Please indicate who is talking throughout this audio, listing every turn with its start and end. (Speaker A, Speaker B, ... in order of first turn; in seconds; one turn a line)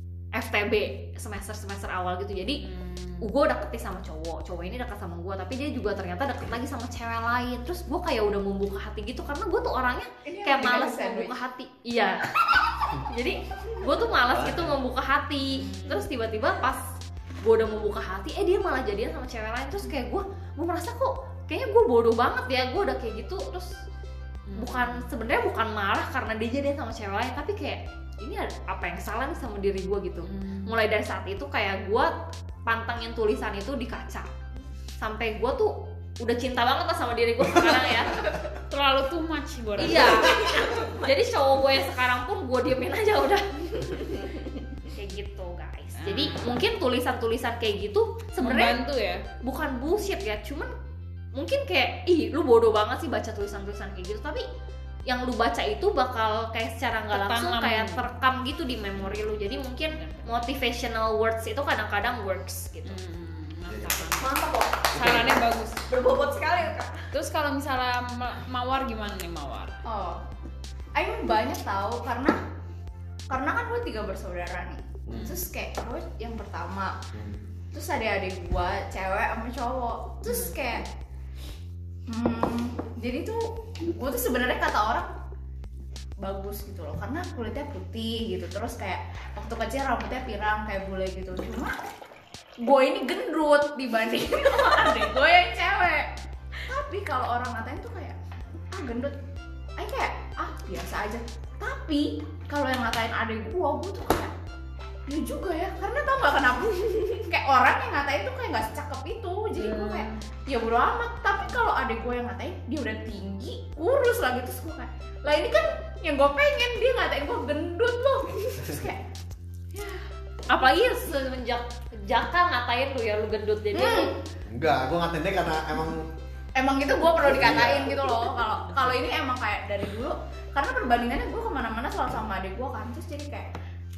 Speaker A: 0.3-2.6
Speaker B: 2.6-3.3
Speaker A: 3.2-16.8
Speaker C: 10.2-11.4
Speaker D: 14.3-14.8
Speaker B: 15.5-16.0
Speaker A: 17.4-23.7
Speaker B: 24.5-25.0
Speaker A: 24.6-32.1
Speaker B: 30.3-30.7
Speaker A: 32.7-34.3
Speaker A: 35.0-38.2
Speaker B: 38.6-40.3
Speaker A: 39.8-44.0
Speaker E: 40.0-41.1
Speaker E: 43.9-44.5
Speaker A: 44.9-48.8
Speaker B: 46.0-46.5
Speaker B: 48.4-49.2
Speaker A: 49.4-50.7
Speaker A: 51.4-54.5
Speaker A: 55.1-63.0
Speaker B: 57.1-58.0
Speaker B: 60.0-60.5
Speaker B: 62.9-64.3
Speaker D: 63.7-64.1
Speaker E: 64.2-65.3
Speaker B: 64.9-65.8
Speaker D: 65.0-65.4
Speaker E: 65.9-67.1
Speaker B: 67.1-69.8
Speaker C: 69.9-70.2
Speaker C: 71.0-72.4
Speaker C: 73.3-77.0
Speaker D: 75.1-75.3
Speaker B: 75.1-75.4
Speaker D: 77.1-77.4
Speaker C: 77.7-80.9
Speaker B: 80.3-80.5
Speaker C: 82.1-85.1
Speaker C: 86.2-91.8
Speaker C: 92.6-96.1
Speaker C: 96.6-98.2
Speaker C: 98.7-99.2
Speaker C: 99.8-104.3
Speaker C: 105.1-119.0
Speaker B: 109.6-110.2
Speaker C: 119.7-120.0
Speaker A: 120.5-124.1
Speaker C: 123.7-124.2
Speaker D: 124.5-126.1
Speaker C: 126.6-133.5
Speaker D: 127.2-128.1